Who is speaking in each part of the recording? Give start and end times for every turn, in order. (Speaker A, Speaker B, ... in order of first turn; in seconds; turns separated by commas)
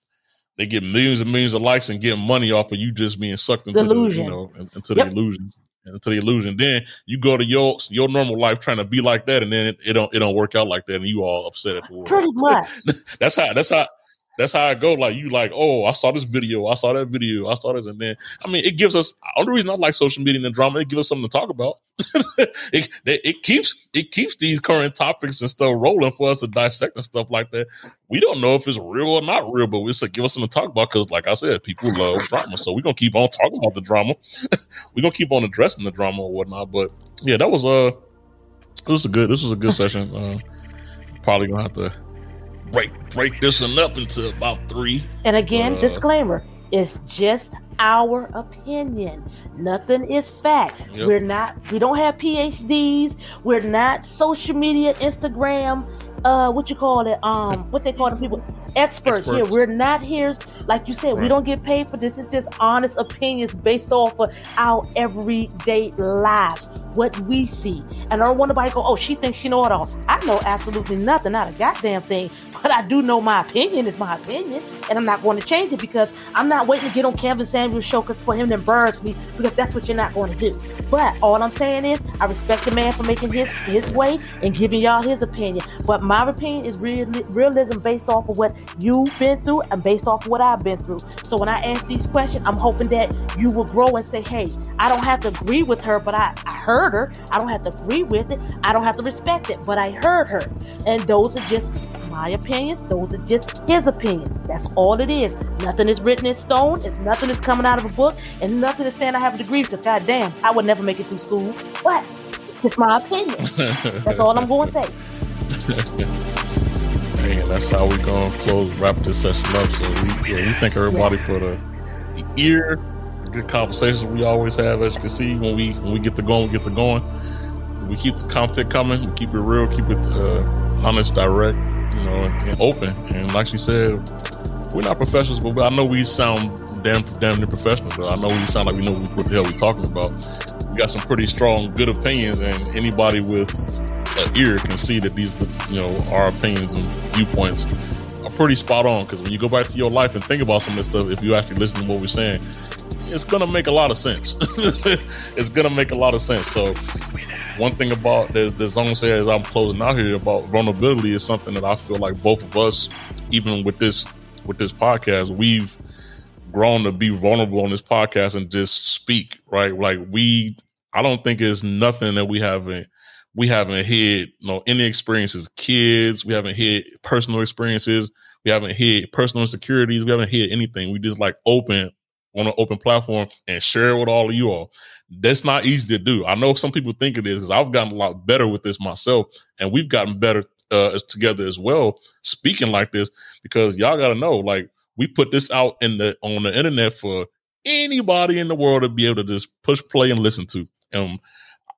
Speaker A: 0.6-37.9, Speaker B: 3.7-4.4, Speaker B: 12.0-12.8, Speaker A: 38.9-40.4, Speaker A: 41.2-41.9, Speaker A: 42.6-46.0, Speaker B: 45.2-112.1, Speaker A: 50.9-51.1, Speaker A: 59.0-59.6, Speaker B: 112.6-113.5, Speaker A: 113.5-114.7, Speaker B: 114.0-114.9, Speaker A: 115.7-116.0, Speaker A: 117.2-121.6, Speaker B: 120.9-121.1, Speaker A: 122.2-127.1, Speaker A: 127.8-134.0, Speaker A: 134.7-140.2, Speaker A: 140.7-147.7, Speaker A: 148.2-152.4, Speaker A: 153.0-156.8, Speaker A: 157.5-165.8, Speaker A: 166.4-201.2